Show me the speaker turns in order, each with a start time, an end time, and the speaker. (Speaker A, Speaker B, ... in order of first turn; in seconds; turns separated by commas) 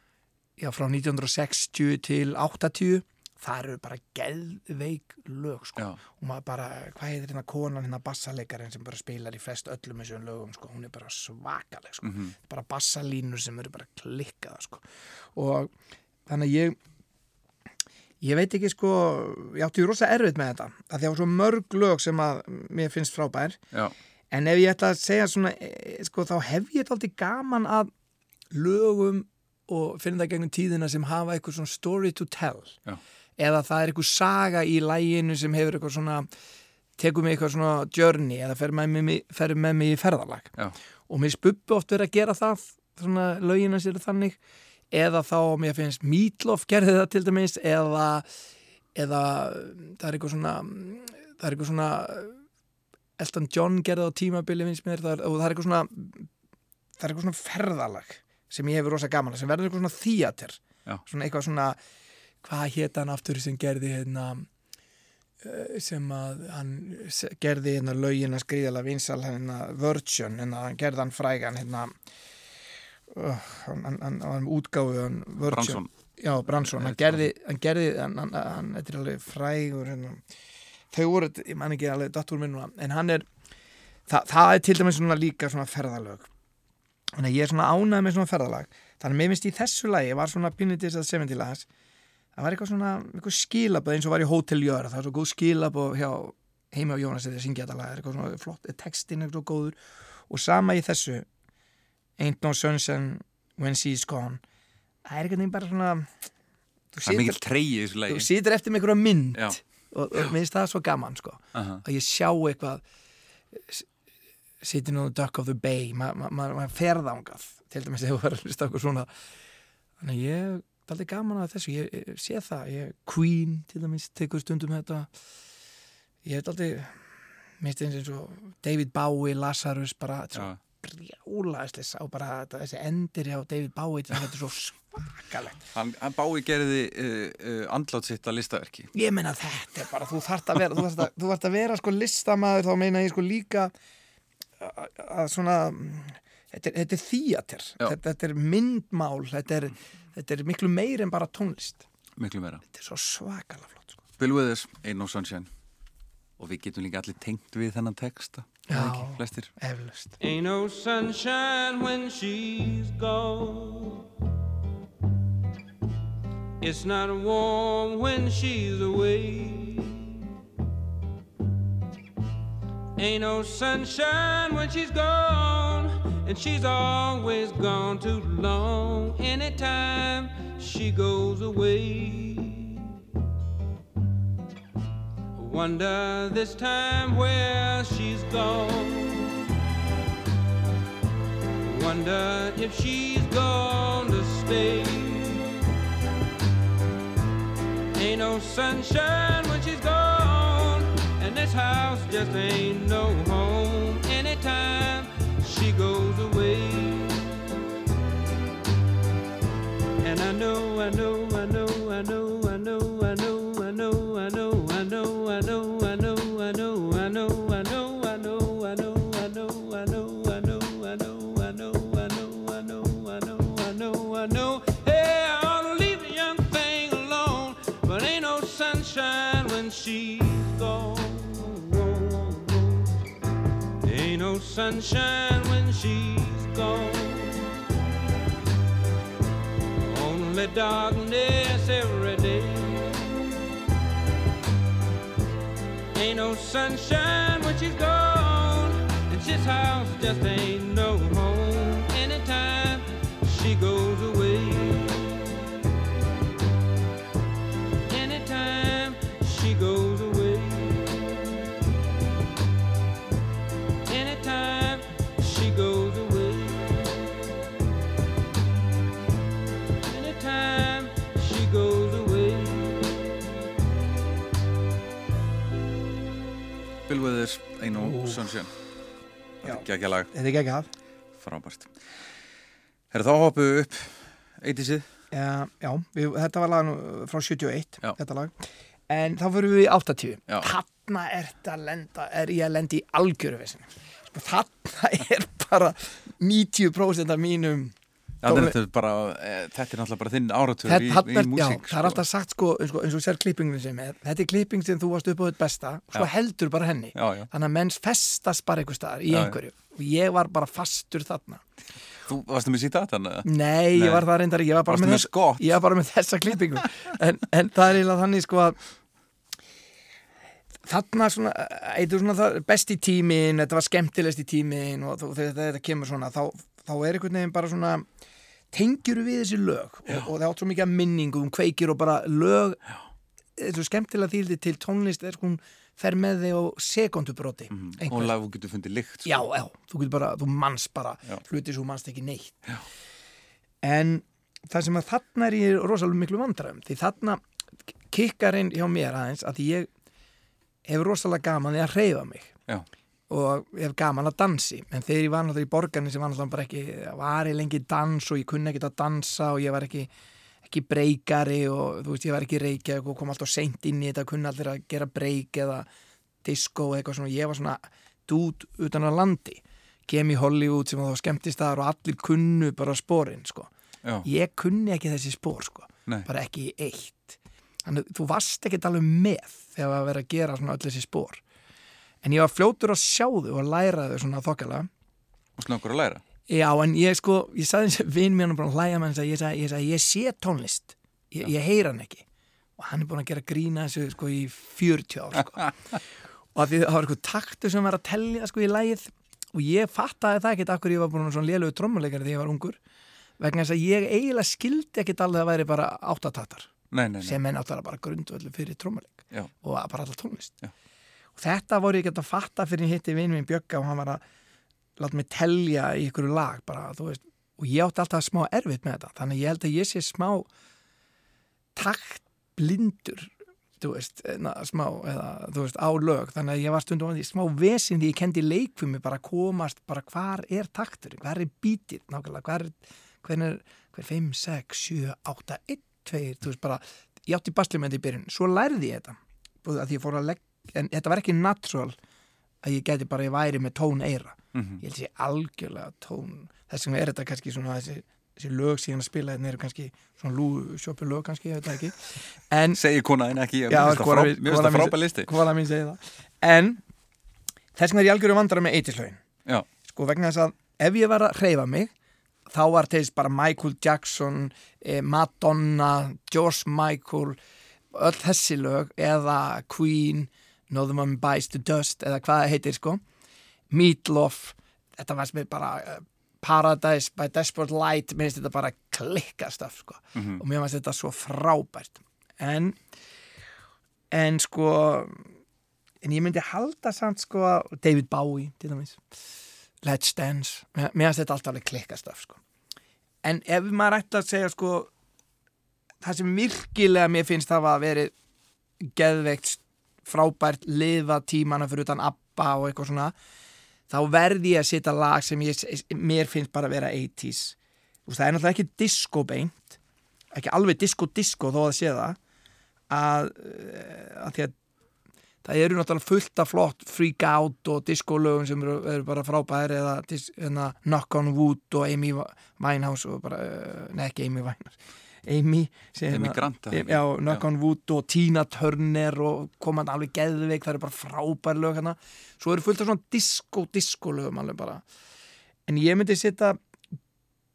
Speaker A: 0.6-14.8, Speaker B: 12.0-12.3, Speaker A: 15.3-15.7, Speaker A: 16.3-16.8, Speaker A: 18.2-23.6, Speaker A: 24.3-27.9, Speaker A: 28.5-32.8, Speaker A: 33.4-36.3, Speaker A: 37.0-40.5, Speaker A: 41.1-44.4, Speaker A: 44.9-48.3, Speaker A: 48.9-52.4, Speaker A: 53.2-56.3, Speaker A: 57.0-61.8, Speaker A: 62.4-64.5, Speaker A: 65.4-71.9, Speaker A: 73.1-80.2, Speaker B: 75.4-75.9, Speaker B: 76.5-77.2, Speaker A: 80.9-83.2, Speaker A: 84.1-86.3, Speaker A: 87.2-91.7, Speaker A: 92.3-99.8, Speaker A: 100.3-101.3, Speaker A: 102.2-104.4, Speaker A: 105.0-106.1, Speaker A: 106.9-107.4, Speaker B: 107.0-108.3, Speaker A: 108.1-112.8, Speaker B: 109.3-109.6, Speaker B: 111.5-111.8, Speaker A: 113.5-113.8, Speaker A: 114.6-119.1, Speaker A: 120.0-125.1, Speaker A: 126.2-127.0, Speaker A: 127.6-135.6, Speaker B: 135.7-138.9, Speaker A: 138.9-143.7, Speaker A: 144.6-151.8, Speaker B: 152.2-152.6, Speaker A: 152.7-154.0, Speaker B: 154.2-155.5, Speaker B: 156.4-159.5, Speaker A: 158.7-160.2, Speaker C: 160.2-164.0, Speaker C: 166.6-170.0, Speaker C: 173.0-182.8, Speaker C: 185.3-189.3, Speaker C: 191.6-195.4, Speaker C: 197.9-207.3, Speaker C: 210.0-232.9, Speaker C: 233.8-237.4, Speaker C: 239.8-243.0, Speaker C: 245.9-255.3, Speaker C: 257.9-261.1, Speaker C: 263.9-266.9, Speaker C: 269.8-273.0, Speaker B: 276.9-278.5, Speaker A: 277.7-278.3, Speaker B: 279.4-280.1, Speaker A: 279.4-280.7, Speaker B: 281.2-281.7, Speaker B: 282.9-284.9, Speaker A: 285.1-298.5, Speaker B: 298.2-302.0, Speaker A: 300.6-311.4, Speaker B: 306.9-307.3, Speaker B: 309.1-309.4, Speaker B: 312.1-314.1, Speaker A: 313.2-318.6, Speaker B: 314.6-315.6, Speaker A: 320.6-327.9, Speaker A: 328.5-332.6, Speaker A: 333.4-338.1, Speaker B: 337.5-339.1, Speaker A: 339.0-342.4, Speaker A: 343.6-347.2, Speaker A: 347.9-349.7, Speaker A: 350.6-352.3, Speaker A: 353.1-359.9, Speaker A: 360.4-365.7, Speaker A: 366.2-373.5, Speaker A: 374.0-381.2, Speaker A: 382.0-384.7, Speaker B: 385.4-386.0, Speaker A: 386.3-392.0, Speaker A: 392.6-395.5, Speaker A: 396.3-402.6, Speaker A: 403.2-406.5, Speaker B: 406.7-407.2, Speaker A: 407.0-410.4, Speaker A: 411.1-414.0, Speaker A: 414.8-420.3, Speaker A: 421.6-441.8, Speaker A: 442.4-452.6, Speaker B: 444.3-444.6, Speaker B: 452.5-455.1, Speaker A: 453.5-456.6, Speaker A: 457.6-459.0, Speaker A: 459.7-461.7, Speaker A: 462.3-467.2, Speaker A: 467.7-472.8, Speaker A: 473.5-482.6, Speaker B: 479.9-480.2, Speaker A: 483.9-485.1, Speaker A: 485.8-488.8, Speaker A: 489.6-492.2, Speaker A: 493.0-494.7, Speaker A: 495.8-497.9, Speaker A: 498.6-502.9, Speaker A: 503.7-507.4, Speaker A: 507.9-509.6, Speaker A: 510.1-512.0, Speaker A: 512.7-514.3, Speaker A: 515.2-534.6, Speaker B: 525.9-527.2, Speaker A: 535.5-536.4